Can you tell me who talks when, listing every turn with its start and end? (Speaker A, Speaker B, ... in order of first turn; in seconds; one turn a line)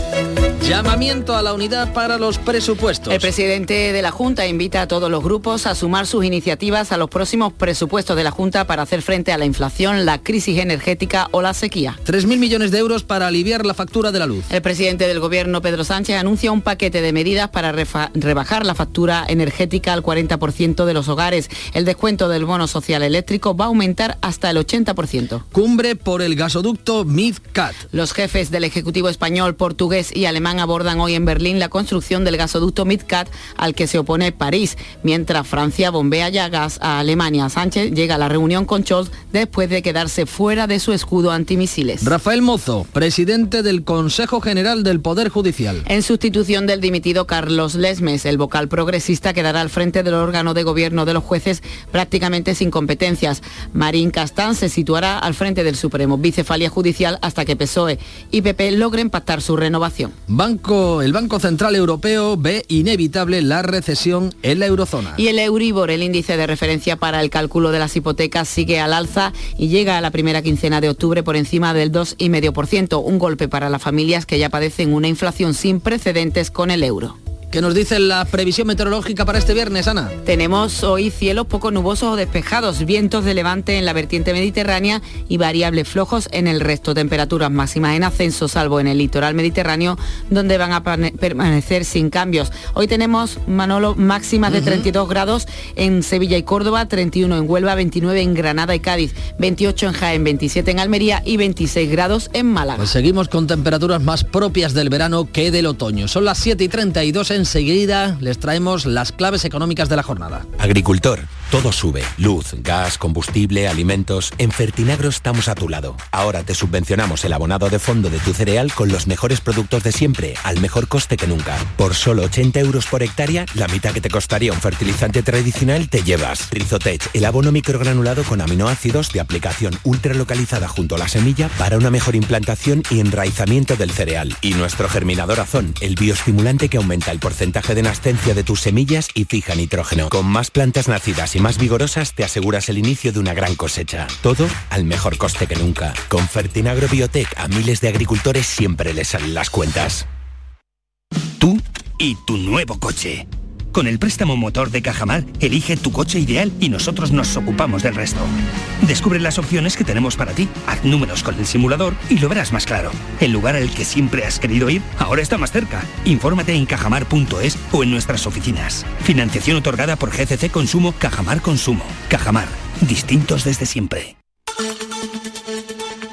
Speaker A: 0.6-3.3
Speaker B: 3.1-12.0
Speaker A: 12.0-14.5
Speaker B: 14.5-25.4
Speaker A: 25.5-27.8
Speaker B: 27.9-42.1
Speaker A: 42.0-45.8
Speaker B: 45.9-60.1
Speaker A: 60.3-65.2
Speaker B: 65.2-77.2
Speaker A: 77.5-80.1
Speaker B: 80.2-102.9
Speaker A: 102.8-110.5
Speaker C: 110.6-150.1
Speaker D: 151.4-158.3
Speaker D: 158.8-174.1